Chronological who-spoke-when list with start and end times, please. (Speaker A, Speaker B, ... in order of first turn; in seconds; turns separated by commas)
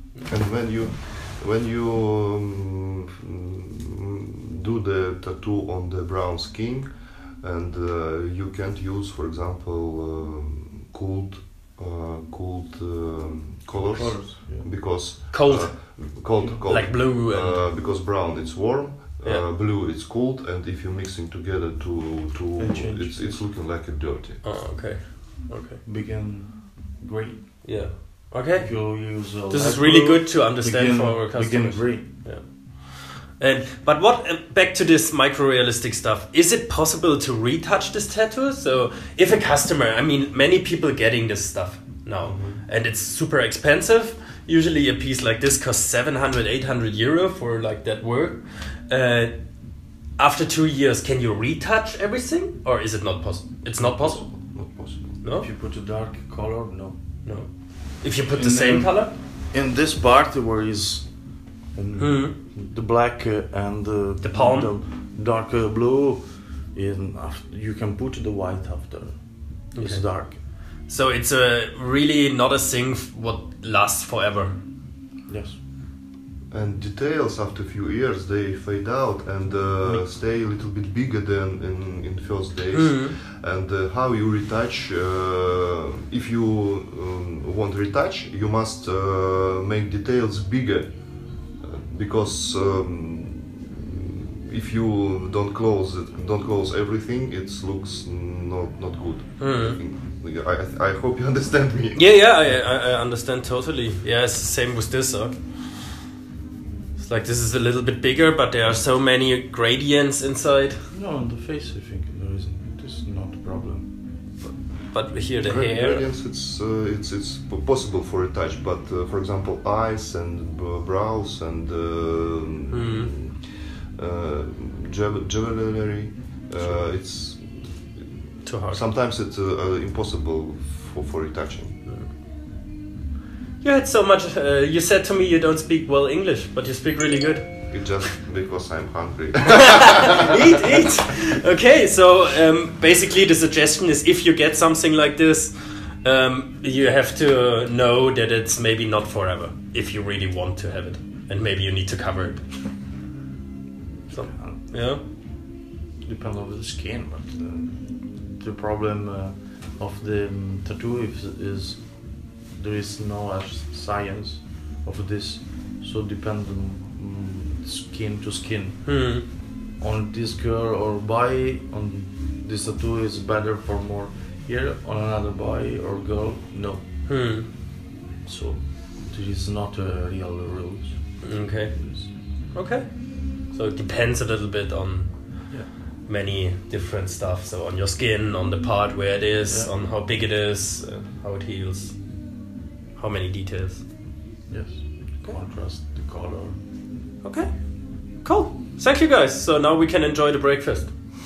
Speaker A: 0.3-24.4, Speaker B: 13.7-14.7, Speaker C: 15.3-17.6, Speaker B: 16.4-16.6, Speaker B: 22.6-23.4, Speaker C: 24.4-25.8, Speaker B: 25.8-32.1, Speaker C: 27.6-29.0, Speaker C: 29.5-49.4, Speaker A: 42.2-42.6, Speaker C: 50.2-54.2, Speaker A: 53.8-55.2, Speaker C: 55.2-55.5, Speaker B: 55.3-57.0, Speaker C: 57.2-59.1, Speaker B: 58.3-61.1, Speaker B: 61.7-70.4, Speaker C: 62.0-62.3, Speaker C: 64.2-64.7, Speaker C: 69.7-70.0, Speaker C: 70.8-74.6, Speaker B: 75.3-75.6, Speaker A: 76.5-91.0, Speaker C: 82.7-83.1, Speaker A: 91.6-102.1, Speaker C: 99.4-99.8, Speaker C: 102.0-105.3, Speaker C: 107.0-110.8, Speaker B: 110.9-113.9, Speaker C: 114.4-116.0, Speaker A: 115.4-131.8, Speaker C: 122.7-123.1, Speaker C: 128.4-128.8, Speaker C: 133.6-137.6, Speaker A: 137.7-140.4, Speaker C: 139.5-145.5, Speaker C: 146.0-152.4, Speaker B: 154.1-154.6, Speaker C: 154.1-155.0, Speaker B: 156.0-176.8, Speaker C: 168.8-169.2, Speaker C: 177.1-177.5, Speaker B: 178.2-182.1, Speaker C: 181.2-181.7, Speaker C: 182.5-185.1, Speaker C: 186.1-191.9, Speaker C: 193.0-193.8, Speaker B: 194.5-196.6, Speaker C: 197.2-197.5, Speaker C: 198.2-200.9